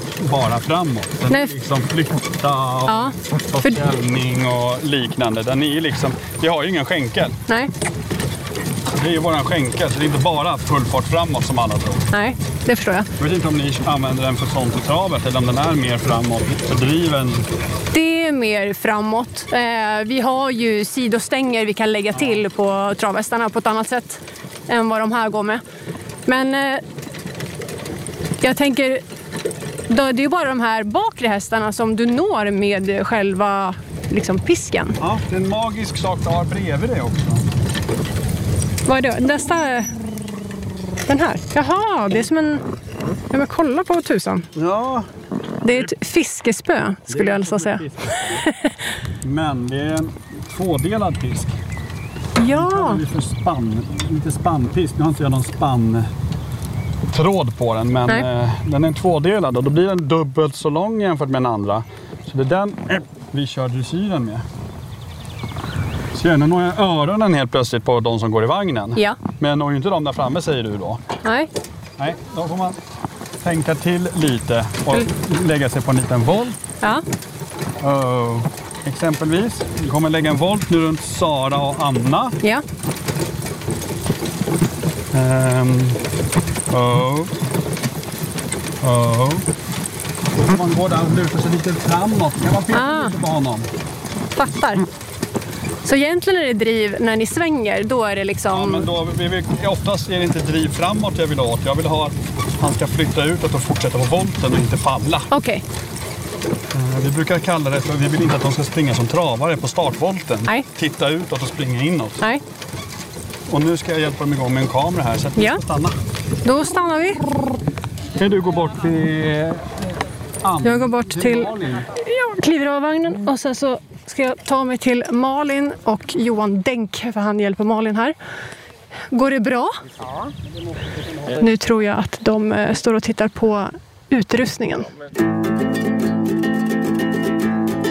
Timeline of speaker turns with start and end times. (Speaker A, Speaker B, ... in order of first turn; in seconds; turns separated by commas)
Speaker A: 0.2-7.4, Speaker B: 2.9-3.8, Speaker A: 8.9-12.1, Speaker B: 12.1-13.1, Speaker A: 13.2-17.4, Speaker B: 17.9-25.6, Speaker B: 26.3-26.8, Speaker B: 28.4-29.0, Speaker B: 29.9-35.0, Speaker A: 35.0-37.5, Speaker B: 38.9-39.9, Speaker B: 41.1-42.6, Speaker B: 43.3-44.5, Speaker A: 44.5-45.1, Speaker B: 45.6-48.5, Speaker A: 47.1-48.4, Speaker A: 49.2-51.5, Speaker B: 52.4-53.0, Speaker A: 52.5-56.1, Speaker A: 57.1-64.5, Speaker A: 66.1-71.0, Speaker B: 71.2-71.5, Speaker A: 72.0-72.8, Speaker A: 73.4-76.6, Speaker A: 77.8-82.4, Speaker A: 85.1-86.0, Speaker A: 86.7-87.3, Speaker A: 88.8-89.5, Speaker A: 90.4-93.7, Speaker B: 92.7-93.1, Speaker B: 94.3-94.8, Speaker B: 95.8-98.9, Speaker A: 98.5-105.3, Speaker B: 105.3-105.6, Speaker A: 106.7-112.2, Speaker A: 113.5-116.0, Speaker B: 116.4-117.2, Speaker A: 118.2-119.9, Speaker A: 120.4-121.9, Speaker B: 120.6-128.2, Speaker B: 129.1-129.8, Speaker B: 131.3-134.9